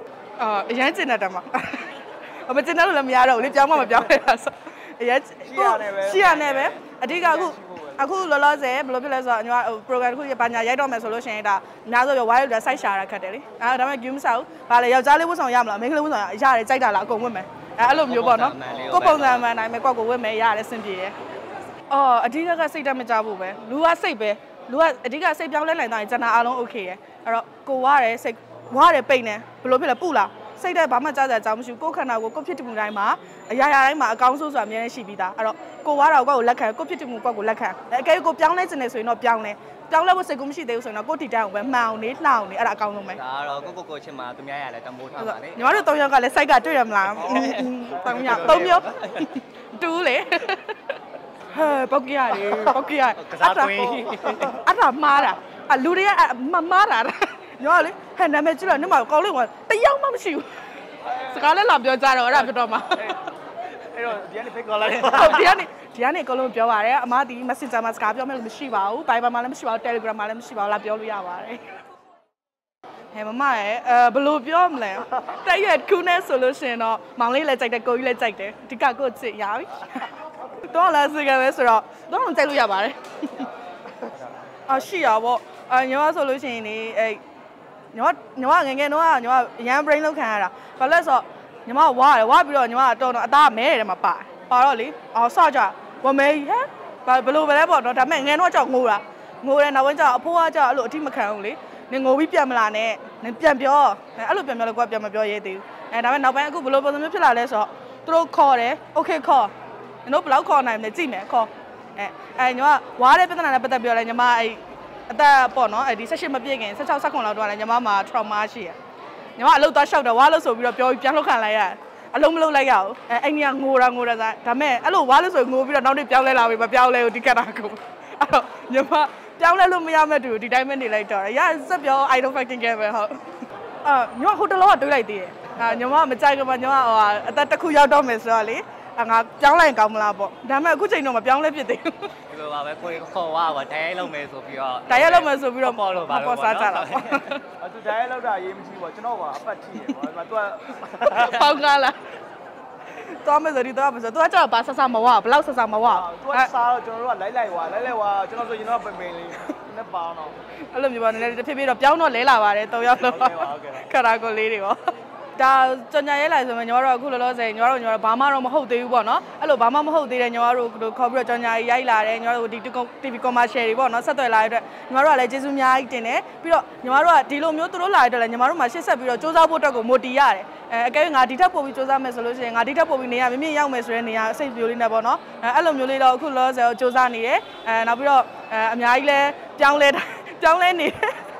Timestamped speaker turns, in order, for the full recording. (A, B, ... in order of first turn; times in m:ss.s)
0:00.4-0:21.1 A
0:05.4-0:08.1 B
0:17.8-0:19.5 C
0:18.6-0:19.0 B
0:21.9-0:43.2 A
0:43.1-0:45.9 C
0:45.2-0:51.0 A
0:47.1-0:49.3 C
0:51.5-1:00.5 A
0:53.2-0:54.6 C
1:01.0-1:01.5 B
1:01.1-1:03.2 A
1:02.9-1:03.3 B
1:03.8-1:05.6 B
1:05.0-1:11.6 A
1:13.1-1:20.1 A
1:20.6-1:23.5 A
1:24.7-1:27.2 A
1:27.9-1:49.5 A
1:50.0-1:58.8 A
1:59.4-2:13.2 A
2:13.8-2:22.1 A
2:22.3-2:27.3 C
2:24.9-2:27.4 A
2:27.6-2:31.4 B
2:31.0-2:32.0 A
2:33.0-2:36.5 A
2:35.8-2:40.4 B
2:40.7-2:44.8 A
2:43.0-2:43.9 B
2:45.4-3:11.2 A